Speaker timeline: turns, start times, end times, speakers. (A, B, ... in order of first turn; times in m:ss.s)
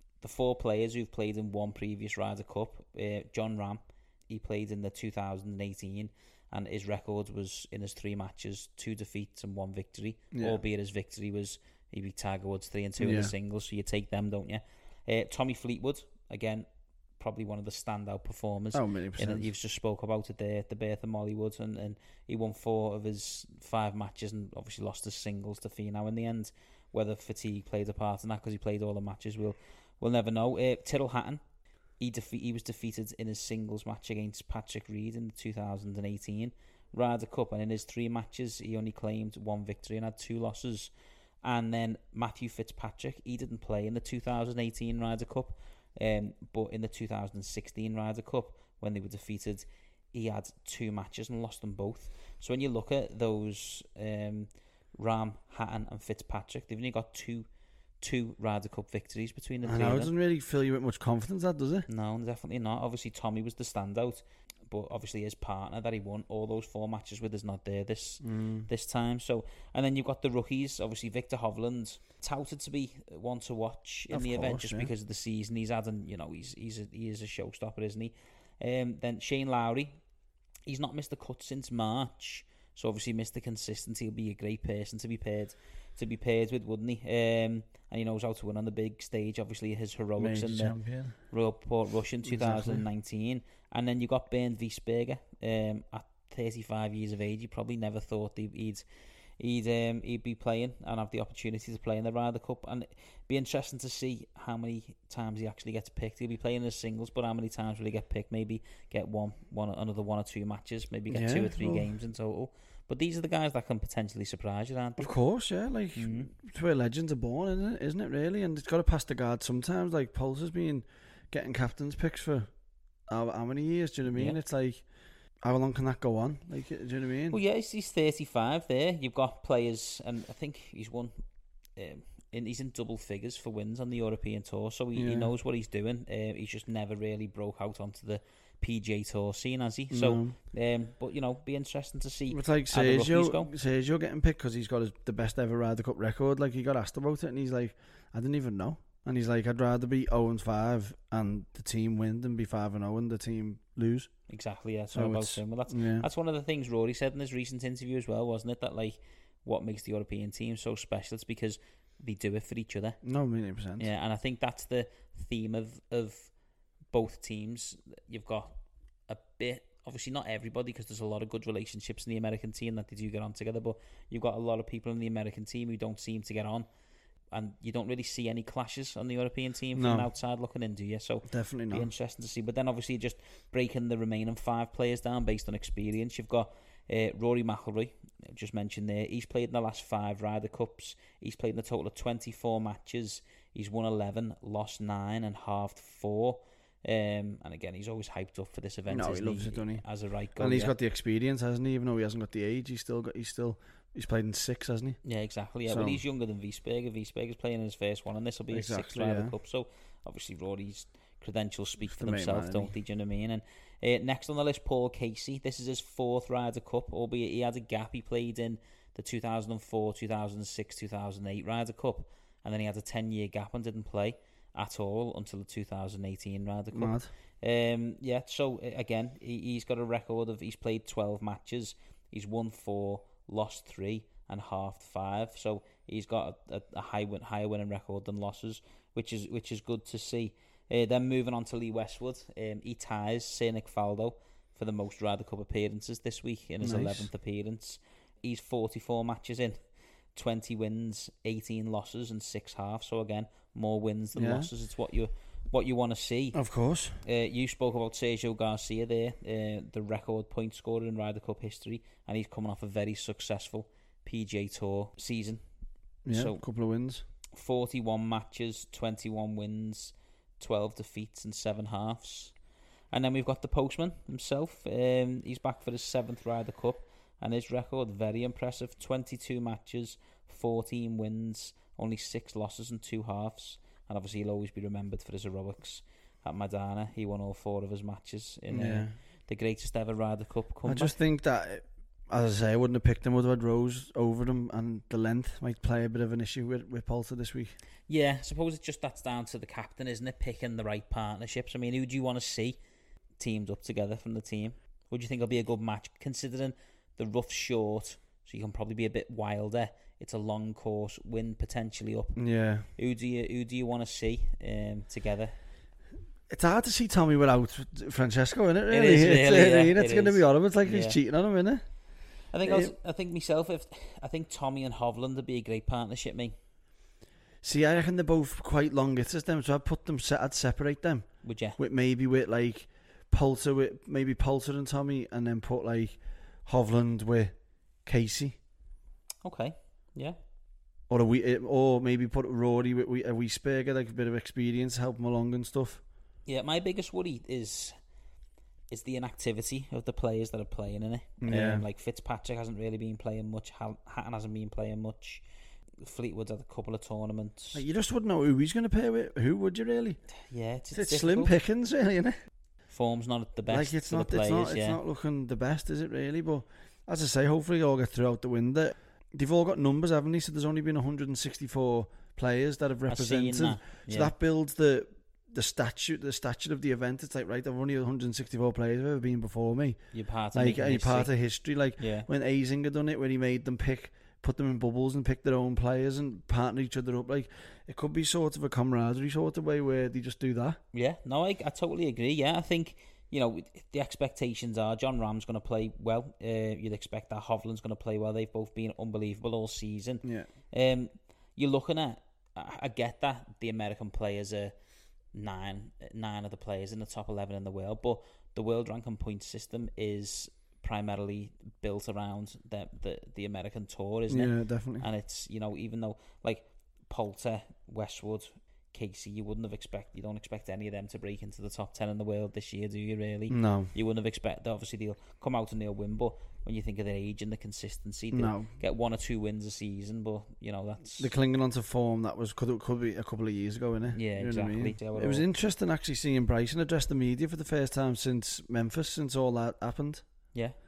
0:00.2-0:16.6 A
0:10.3-0:10.6 B
0:13.0-0:13.3 B
0:17.2-0:31.4 A
0:18.7-0:19.5 B
0:32.0-0:40.9 A
0:41.4-0:57.5 A
0:58.0-1:00.1 A
0:59.6-1:01.8 B
1:01.9-1:20.0 A
1:08.2-1:08.7 B
1:14.1-1:14.9 B
1:20.6-1:30.7 A
1:30.2-1:31.2 B
1:31.3-1:38.8 A
1:32.2-1:32.8 B
1:39.4-1:55.1 A
1:51.1-1:51.9 B
1:55.0-2:02.5 B
1:56.0-1:56.3 A
2:03.1-2:04.8 B
2:04.1-2:04.4 A
2:05.4-2:07.4 B
2:07.3-2:11.1 A
2:11.8-2:23.5 A
2:14.9-2:15.3 B
2:19.9-2:20.4 B
2:22.3-2:34.1 B
2:34.3-2:43.0 A
2:34.9-2:36.0 B
2:43.0-2:43.9 B
2:43.8-2:46.3 A
2:46.9-2:48.5 A
2:49.1-2:56.7 A
2:57.3-3:20.7 A
2:59.7-3:00.1 B
3:01.2-3:01.9 B
3:18.9-3:19.8 B
3:20.4-3:25.0 B
3:25.0-4:09.6 A
3:25.7-3:26.0 B
3:28.5-3:29.3 B
3:31.9-3:32.7 B
3:46.7-3:47.1 B
4:06.6-4:07.1 B
4:10.1-4:16.4 A
4:14.1-4:14.5 B
4:16.3-4:17.0 B
4:17.0-4:25.4 A
4:26.0-4:27.0 B
4:26.1-4:26.4 A
4:27.3-4:32.3 A
4:32.9-4:51.0 A
4:48.5-4:48.9 B
4:50.6-4:57.5 B
4:57.9-5:02.6 A
5:03.2-5:12.2 A
5:12.2-5:12.7 B
5:12.8-5:15.3 A
5:16.3-5:21.6 B
5:18.7-5:21.0 A
5:22.3-5:26.3 A
5:22.4-5:22.7 B
5:27.4-5:31.1 B
5:31.2-5:31.6 A
5:31.6-5:37.3 B
5:37.8-5:38.4 B
5:39.2-5:40.2 A
5:40.9-5:45.8 B
5:46.3-5:47.7 A
5:48.7-5:55.2 A
5:51.2-5:51.6 B
5:55.8-5:57.6 A
5:57.5-6:00.0 B
6:00.3-6:01.3 A
6:00.7-6:02.1 B
6:02.7-6:04.8 A
6:03.5-6:19.8 B
6:12.9-6:14.1 A
6:19.9-6:21.1 A
6:20.3-6:30.6 B
6:21.8-6:22.1 A
6:30.7-6:44.5 A
6:40.0-6:40.3 B
6:45.1-7:11.1 A
6:54.1-6:54.8 B
7:03.3-7:03.7 B
7:08.1-7:08.5 B
7:11.0-7:20.0 B
7:13.9-7:15.2 A